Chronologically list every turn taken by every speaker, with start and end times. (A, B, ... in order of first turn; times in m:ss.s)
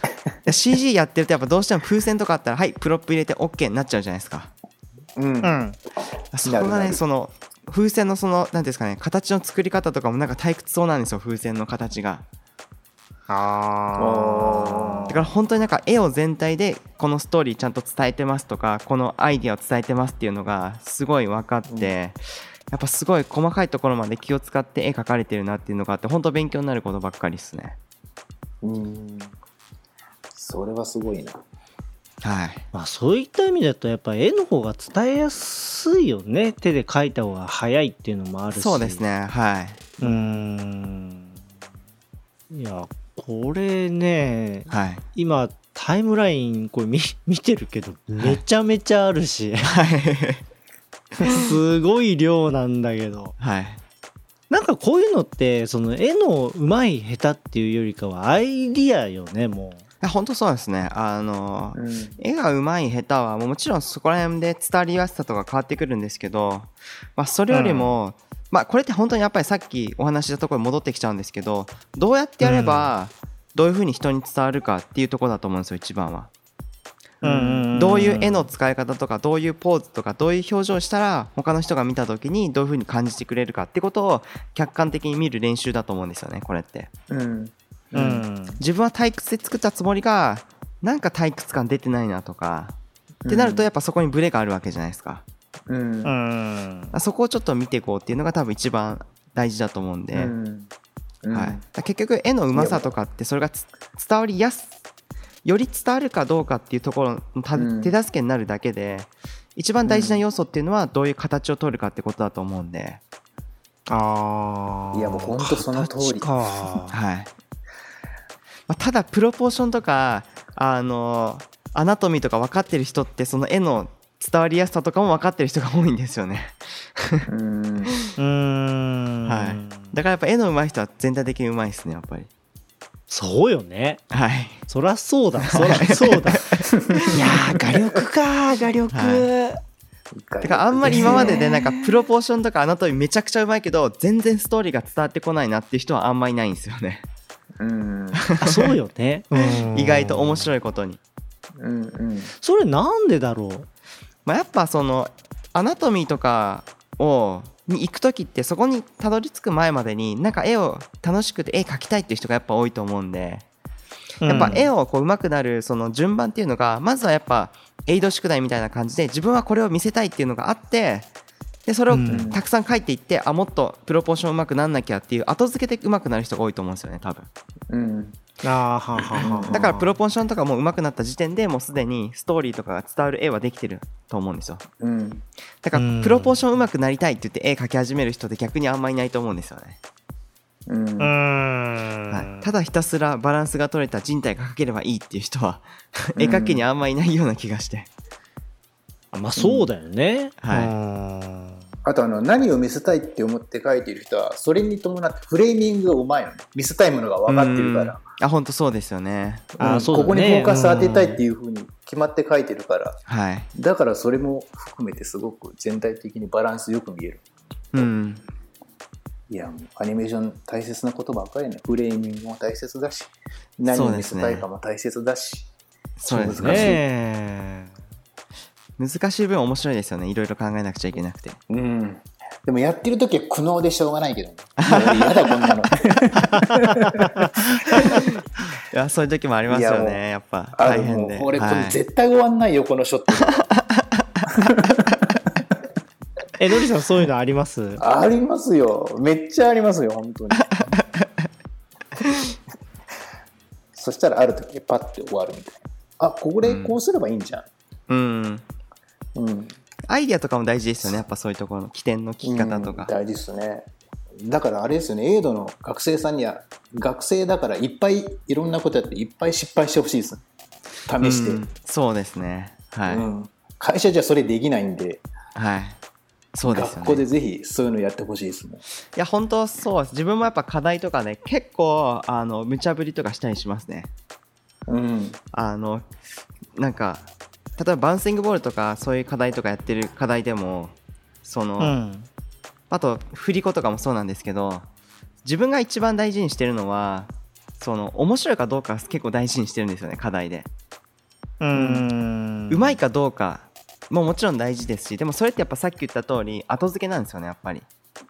0:00.4-0:04.5 A
0:05.2-0:05.6 B
0:05.4-0:05.8 C
0:06.3-0:12.2 A
0:06.4-0:07.0 B
0:13.3-0:15.2 C
0:14.0-0:15.1 B
0:15.1-0:27.8 A
0:21.7-0:21.9 B
0:28.6-0:29.3 B
0:30.3-0:31.4 B
0:32.2-0:32.6 A
0:32.7-0:39.0 C
0:38.5-0:39.8 A
0:40.0-0:40.4 B
0:40.0-0:41.4 C
0:42.5-0:49.7 C
0:44.7-0:45.0 A
0:49.6-0:50.4 A
0:51.2-0:53.3 C
0:53.4-0:53.8 A
0:54.5-0:59.8 C
1:00.0-1:16.3 A
1:01.7-1:02.2 B
1:07.5-1:07.9 C
1:12.4-1:12.9 C
1:17.2-1:18.5 C
1:17.2-1:17.7 B
1:17.7-1:26.9 A
1:27.1-1:28.2 B
1:27.9-1:28.6 C
1:28.6-1:32.8 A
1:33.2-1:33.7 B
1:33.3-1:35.2 A
1:35.7-1:36.1 B
1:36.0-1:36.9 C
1:36.9-1:40.3 A
1:40.1-1:40.7 B
1:41.2-1:41.6 B
1:41.3-1:44.7 A
1:42.5-1:42.9 B
1:45.4-1:53.0 A
1:47.5-1:47.9 B
1:49.8-1:50.2 B
1:53.9-1:56.9 C
1:54.9-1:56.3 B
1:56.9-1:57.3 A
1:58.7-2:07.3 A
2:07.3-2:07.9 B
2:08.2-2:09.9 C
2:09.2-2:12.3 A
2:13.1-2:14.0 C
2:14.1-2:14.6 A
2:14.7-2:19.6 C
2:15.5-2:17.2 A
2:16.7-2:17.2 B
2:18.9-2:19.3 A
2:20.1-2:21.4 B
2:20.4-2:27.0 A
2:20.8-2:21.6 C
2:27.6-2:28.2 B
2:28.2-2:28.7 A
2:28.4-2:30.5 C
2:29.5-2:31.0 A
2:31.6-2:32.3 B
2:32.4-2:33.7 C
2:34.2-2:43.4 A
2:44.2-2:44.7 C
2:44.2-2:51.1 A
2:51.6-2:57.3 A
2:51.9-2:52.3 C
2:52.1-2:52.4 B
2:57.7-2:58.2 B
2:58.4-2:59.9 C
2:59.2-2:59.6 B
2:59.5-3:04.6 A
3:04.8-3:05.2 B
3:05.6-3:09.8 A
3:05.7-3:06.4 C
3:10.7-3:11.2 B
3:11.0-3:12.5 C
3:12.1-3:17.9 A
3:16.2-3:16.6 B
3:19.1-3:21.6 C
3:19.4-3:19.7 B
3:20.4-3:20.7 A
3:21.8-3:28.0 B
3:27.3-3:29.5 A
3:29.6-3:33.0 B
3:29.6-3:31.2 C
3:33.1-3:33.5 A
3:33.5-3:37.2 B
3:37.7-3:38.2 A
3:39.3-3:45.5 B
3:43.7-3:44.4 A
3:46.0-3:46.7 A
3:46.1-3:46.8 B
3:46.1-3:47.7 C
3:48.8-3:51.4 A
3:51.5-3:57.2 B
3:54.6-3:55.6 A
3:56.3-3:58.0 C
3:57.7-3:58.1 A
3:58.7-4:01.8 A
3:59.5-4:00.0 B
4:00.6-4:03.5 B
4:03.2-4:04.3 A
4:04.3-4:05.0 B
4:06.4-4:07.8 C
4:07.8-4:10.6 B
4:10.4-4:11.3 A
4:13.7-4:17.5 B
4:16.4-4:16.8 A
4:17.9-4:18.4 A
4:19.1-4:19.6 B
4:19.9-4:22.9 A
4:22.2-4:23.7 B
4:24.2-4:30.2 B
4:30.9-4:31.4 B
4:31.0-4:33.0 A
4:32.9-4:35.0 B
4:35.3-4:35.8 A
4:36.3-4:37.0 A
4:36.4-4:38.6 B
4:38.9-4:43.9 A
4:44.7-4:45.2 B
4:45.3-4:45.9 A
4:46.6-4:47.0 A
4:47.6-4:51.8 A
4:51.6-4:52.1 C
4:52.7-4:54.6 A
4:55.2-5:00.5 A
5:01.4-5:02.8 C
5:01.5-5:01.9 B
5:02.5-5:07.6 A